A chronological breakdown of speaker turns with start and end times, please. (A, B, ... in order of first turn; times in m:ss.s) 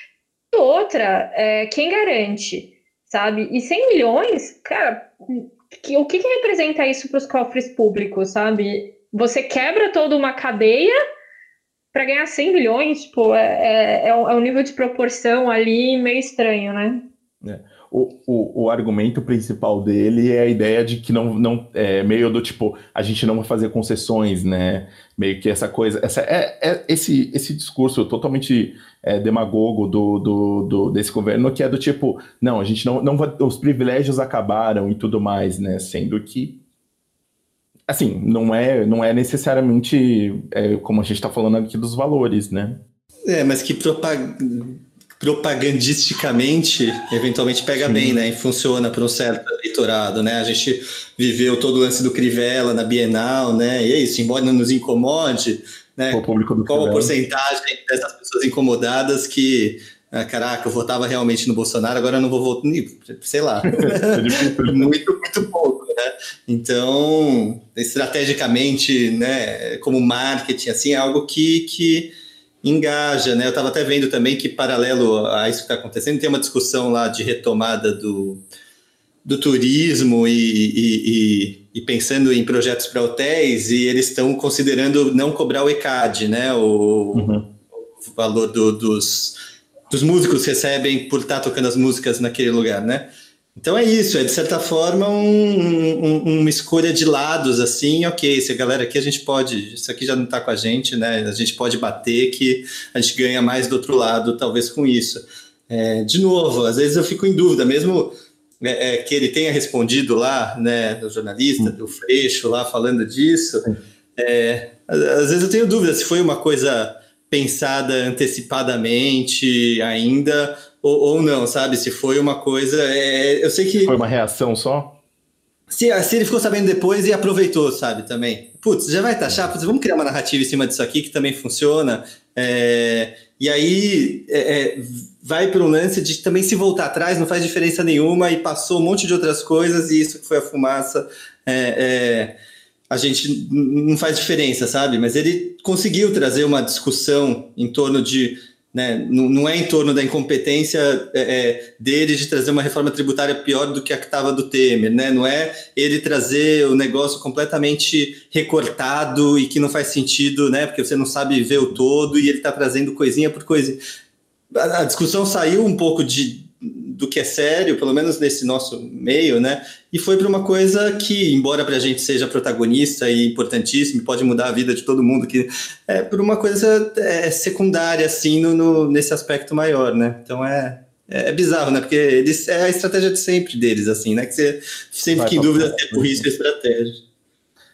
0:00.5-0:10.9 A
0:11.9-0:17.0 A
0:17.4-0:36.5 B
0:37.9-0:42.8 B
0:43.3-1:12.1 C
0:47.8-0:48.2 B
0:56.1-0:57.1 B
1:03.8-1:04.9 B
1:12.6-1:18.4 C
1:19.2-1:27.3 C
1:27.1-1:27.4 B
1:28.1-1:29.4 C
1:29.9-1:53.7 C
1:54.2-2:03.9 C
2:03.8-2:04.9 B
2:05.7-2:22.4 C
2:22.9-2:43.8 C
2:44.5-3:07.0 C
3:05.2-3:06.2 B